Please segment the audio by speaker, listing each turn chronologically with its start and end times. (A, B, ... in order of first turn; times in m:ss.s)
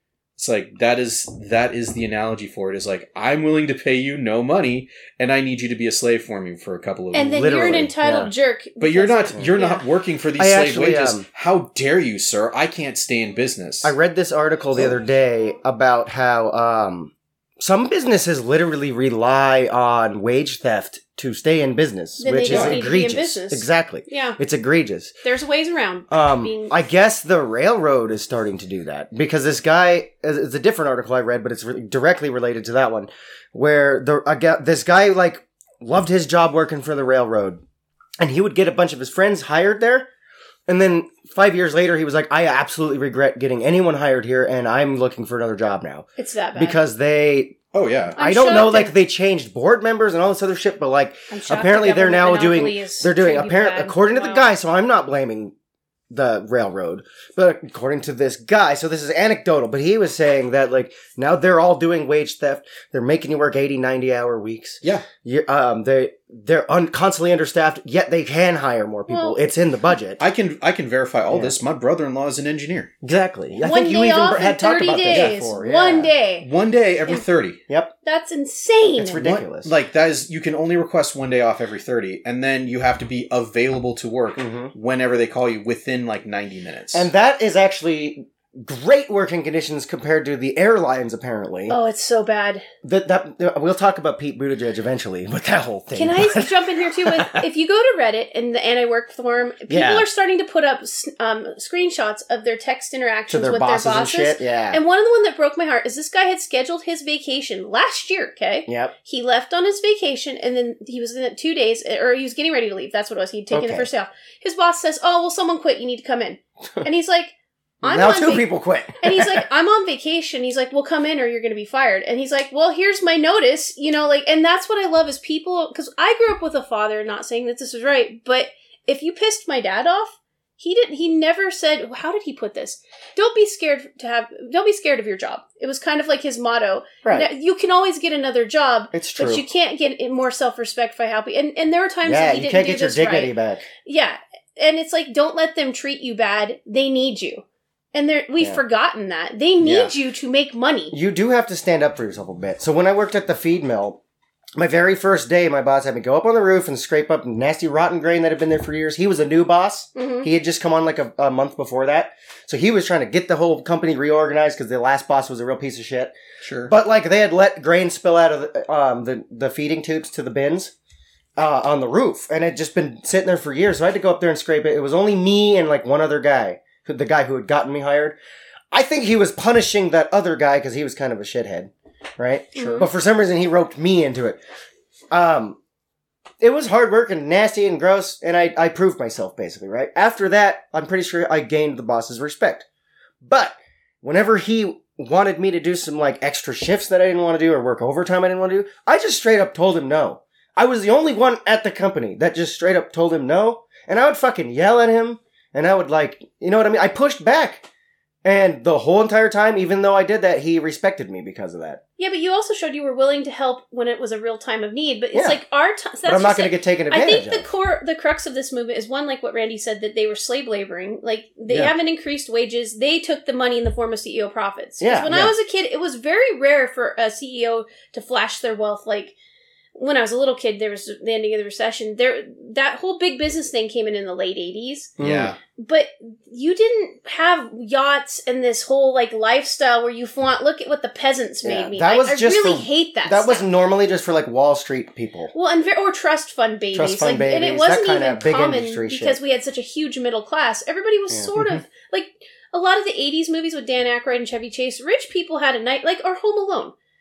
0:00.4-0:07.9 A
0:07.1-0:09.8 B
0:07.2-0:08.3 C
0:08.8-0:13.9 A
0:10.4-0:11.2 C
0:13.8-0:25.1 C
0:22.2-0:24.4 B
0:22.5-0:22.8 A
0:25.2-0:26.7 B
0:26.1-0:37.6 C
0:38.2-0:40.1 C
0:40.7-0:47.6 C
0:46.2-0:46.8 B
0:47.7-0:48.2 A
0:48.1-0:55.5 C
0:48.2-0:48.9 B
0:51.3-0:54.4 B
0:56.1-1:10.2 C
1:09.1-1:09.4 B
1:10.2-1:12.9 A
1:13.0-1:16.1 C
1:13.6-1:16.5 B
1:15.1-1:15.4 A
1:16.4-1:17.6 A
1:18.0-1:19.2 B
1:19.0-1:19.7 C
1:19.2-1:27.1 A
1:24.4-1:24.7 C
1:26.9-1:31.8 C
1:31.7-1:32.6 B
1:32.8-1:37.4 C
1:35.9-1:58.5 B
1:39.7-1:40.0 C
1:43.3-1:44.8 C
1:48.7-1:48.9 C
1:53.5-1:53.9 C
1:57.8-1:59.4 C
1:59.0-2:23.3 B
2:17.0-2:17.3 C
2:18.9-2:19.4 C
2:22.0-2:23.7 C
2:23.8-2:30.9 B
2:29.6-2:29.9 A
2:30.9-2:34.0 C
2:34.6-2:46.1 C
2:39.9-2:40.3 B
2:46.4-2:46.7 A
2:46.7-2:50.7 C
2:51.4-2:58.2 C
2:58.7-3:04.4 C
3:02.5-3:02.9 B
3:05.1-3:05.6 C
3:06.4-3:12.6 C
3:13.2-3:27.6 C
3:28.2-3:31.8 C
3:32.0-3:49.1 B
3:35.1-3:35.4 C
3:36.0-3:37.5 C
3:44.8-3:45.3 C
3:49.7-3:54.9 B
3:55.0-3:55.3 C
3:55.0-3:55.4 A
3:55.6-4:03.4 B
4:01.4-4:05.3 C
4:05.3-4:16.7 B
4:06.7-4:09.2 C
4:11.1-4:11.4 C